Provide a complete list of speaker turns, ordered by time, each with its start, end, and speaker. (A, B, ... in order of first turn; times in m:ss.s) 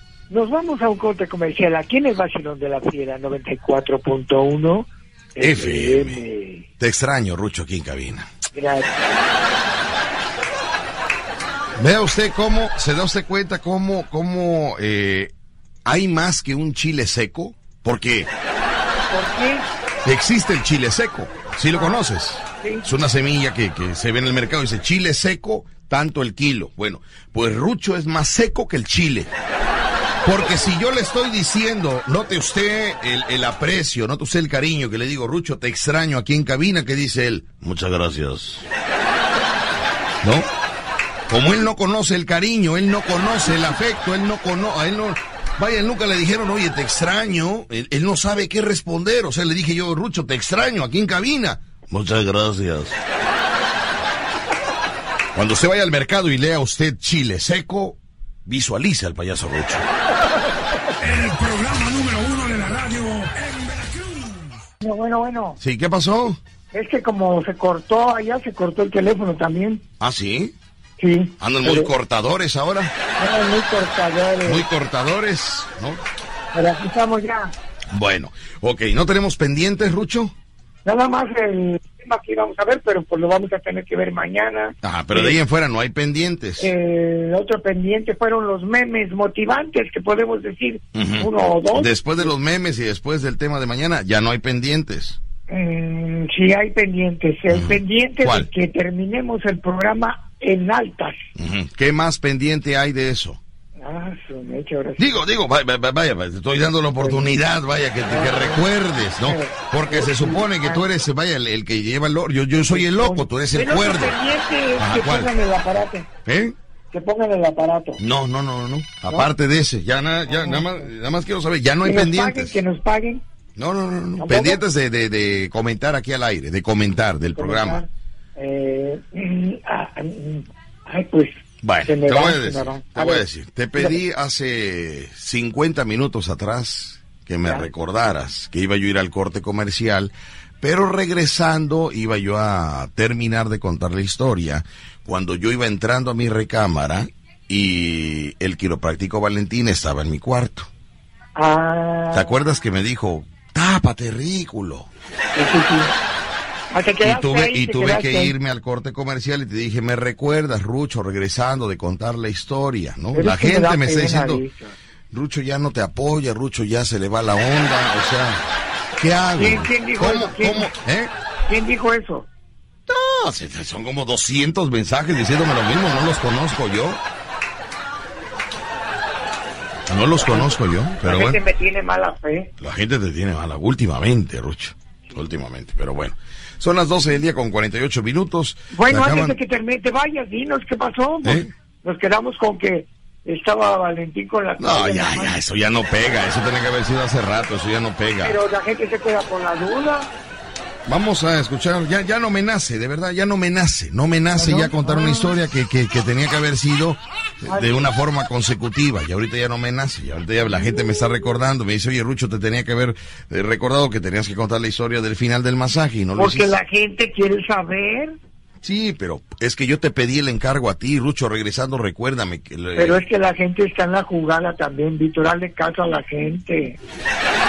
0:00.3-0:06.6 A
0:05.4-0:06.2 B
0:06.8-0:08.3 B
0:08.5-0:08.9 A
0:11.8-0:15.3 B
0:15.8-0:18.3 B
0:19.1-0:19.7 A
0:20.0-0:29.3 B
0:21.7-0:22.0 A
0:22.6-0:22.9 A
0:30.2-0:30.7 A
0:30.2-0:38.7 B
0:40.2-0:40.5 B
0:41.3-0:53.0 B
0:55.3-0:59.8 B
1:01.0-1:04.6 C
1:04.8-1:05.6 A
1:05.6-1:06.4 B
1:06.7-1:09.8 A
1:10.0-1:10.5 B
1:11.0-1:11.9 A
1:11.4-1:12.9 B
1:13.2-1:14.6 A
1:14.4-1:16.0 B
1:16.5-1:17.5 A
1:17.9-1:20.3 B
1:20.8-1:25.4 A
1:24.8-1:26.7 B
1:26.6-1:32.3 A
1:30.9-1:35.2 B
1:35.5-1:41.2 A
1:37.5-1:38.5 B
1:41.4-1:43.4 B
1:43.8-1:45.2 A
1:45.0-1:54.1 B
1:48.1-1:48.6 A
1:49.2-1:50.8 A
1:52.7-1:56.1 A
1:54.8-1:55.3 B
1:56.2-1:56.5 B
1:56.9-1:58.0 A
1:58.0-2:02.6 B
2:00.3-2:00.7 A
2:01.8-2:03.2 A
2:03.6-2:07.8 B
2:04.2-2:04.6 A
2:07.4-2:13.2 A
2:11.6-2:30.7 B
2:31.4-2:32.3 A
2:32.1-2:34.9 B
2:35.3-2:35.9 A
2:36.7-2:38.3 A
2:37.0-2:44.4 B
2:43.1-2:44.7 A
2:45.1-2:48.4 B
2:49.0-2:51.1 B
2:49.4-2:50.7 A
2:51.5-2:52.3 A
2:52.9-2:57.0 B
2:59.9-3:01.4 B
3:00.2-3:02.5 A
3:02.6-3:09.4 B
3:08.7-3:15.3 A
3:11.2-3:11.5 B
3:14.6-3:18.4 B
3:18.2-3:20.1 A
3:20.9-3:36.5 B
3:24.4-3:25.3 A
3:27.5-3:27.8 A
3:30.5-3:31.0 A
3:36.2-3:38.2 A
3:38.6-3:43.0 B
3:42.8-3:46.8 A